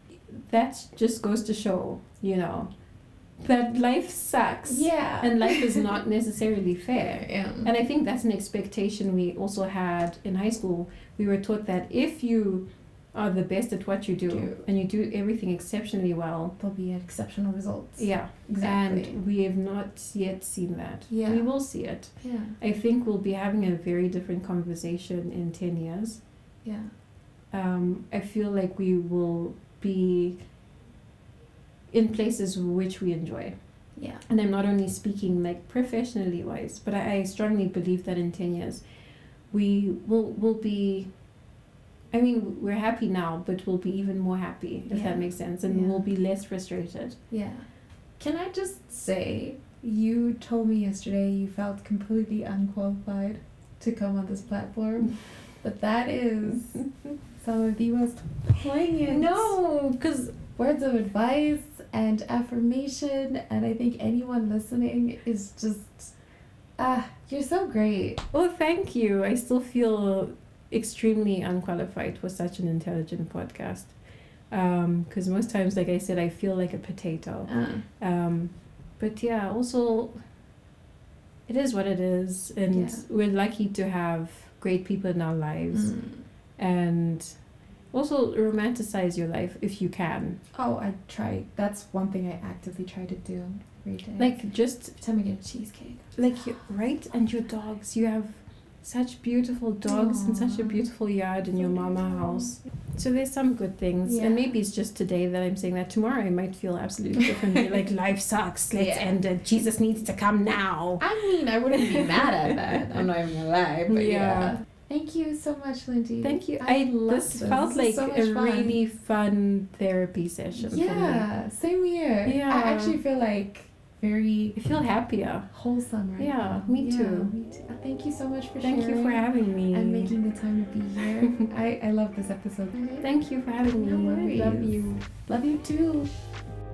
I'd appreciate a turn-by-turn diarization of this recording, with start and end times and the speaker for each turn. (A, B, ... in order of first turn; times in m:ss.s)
0:00.3-0:02.7 A
0:03.4-0:16.6 A
0:04.7-0:06.0 B
0:07.0-0:07.7 B
0:14.3-0:14.6 B
0:16.6-0:19.2 B
0:18.0-0:26.2 A
0:21.1-0:21.5 B
0:22.2-0:22.6 B
0:26.6-0:26.9 B
0:27.5-0:30.4 A
0:31.9-0:33.5 A
0:34.0-0:34.2 B
0:34.3-0:38.8 A
0:39.5-0:41.1 A
0:42.1-0:47.2 A
0:44.9-0:46.1 B
0:47.3-0:47.6 B
0:48.2-0:56.8 B
0:57.4-0:59.6 B
0:59.0-1:00.4 A
1:00.6-1:06.1 B
1:06.8-1:08.2 B
1:08.3-1:13.9 A
1:14.5-1:20.2 A
1:17.5-1:17.8 B
1:21.5-1:26.0 A
1:22.7-1:23.0 B
1:25.7-1:26.2 B
1:26.6-1:27.3 A
1:27.9-1:30.4 A
1:30.5-1:34.4 B
1:34.2-1:35.0 A
1:35.0-1:36.1 B
1:36.2-1:53.1 A
1:39.8-1:40.8 B
1:41.6-1:42.6 B
1:44.0-1:44.5 B
1:47.2-1:47.8 B
1:48.7-1:49.2 B
1:51.0-1:58.8 B
1:53.9-1:54.6 A
1:56.2-2:01.2 A
2:00.6-2:04.6 B
2:02.2-2:03.0 A
2:04.6-2:05.5 A
2:05.5-2:13.1 B
2:06.2-2:07.3 A
2:08.6-2:10.2 A
2:11.2-2:11.5 A
2:13.0-2:15.1 A
2:13.6-2:16.1 B